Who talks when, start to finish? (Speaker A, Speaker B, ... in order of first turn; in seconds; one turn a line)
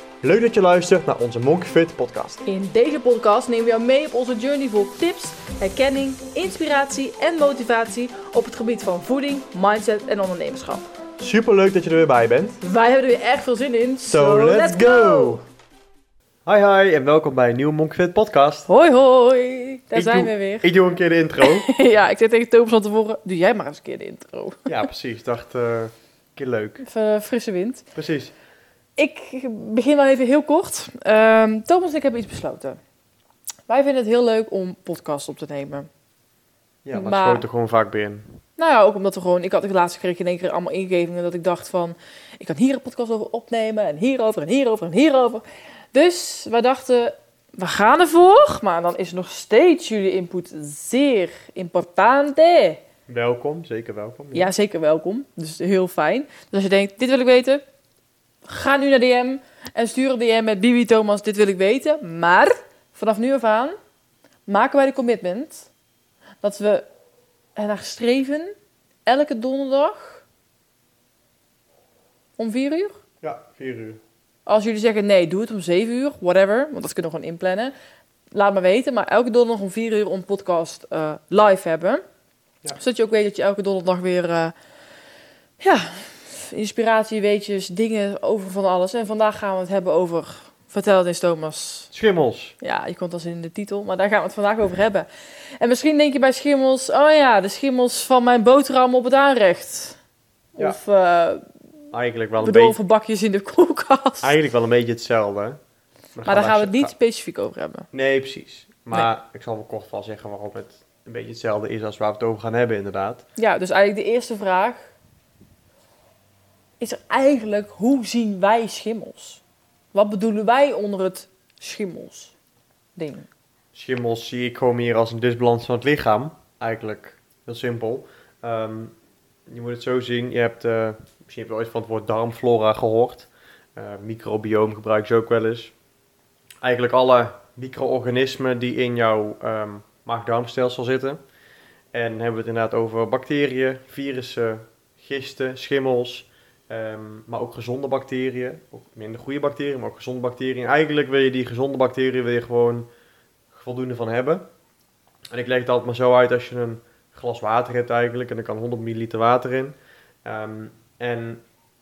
Speaker A: 0.2-2.4
Speaker B: 2.4-10.9
Speaker A: 11.2-12.6
Speaker B: 12.6-15.4
Speaker A: 14.1-15.4
Speaker A: 16.4-18.7
Speaker B: 18.7-20.7
Speaker A: 19.9-21.6
Speaker B: 21.4-24.9
Speaker A: 24.6-26.8
Speaker B: 26.8-27.8
Speaker A: 27.9-28.3
Speaker B: 29.0-32.8
Speaker B: 33.7-35.9
Speaker A: 36.8-38.3
Speaker B: 36.9-37.4
Speaker B: 38.6-52.8
Speaker A: 53.1-54.5
Speaker B: 54.3-57.6
Speaker B: 58.5-63.8
Speaker B: 64.5-65.7
Speaker B: 66.4-66.8
Speaker B: 67.5-68.5
Speaker B: 69.0-70.2
Speaker B: 72.4-73.0
Speaker A: 73.2-74.0
Speaker B: 74.5-77.7
Speaker B: 78.3-82.0
Speaker B: 82.8-84.5
Speaker B: 85.6-91.9
Speaker A: 91.9-92.5
Speaker B: 92.6-95.1
Speaker B: 95.6-100.0
Speaker B: 100.5-101.5
Speaker A: 101.9-102.8
Speaker B: 102.4-104.3
Speaker A: 104.2-105.6
Speaker A: 106.2-106.9
Speaker B: 106.2-107.8
Speaker A: 107.9-113.2
Speaker B: 113.4-114.9
Speaker B: 116.8-119.4
Speaker B: 119.9-122.3
Speaker B: 123.0-123.3
Speaker A: 123.7-128.9
Speaker A: 129.5-135.7
Speaker A: 136.6-141.2
Speaker A: 141.9-152.9
Speaker A: 153.5-154.4
Speaker A: 155.3-161.4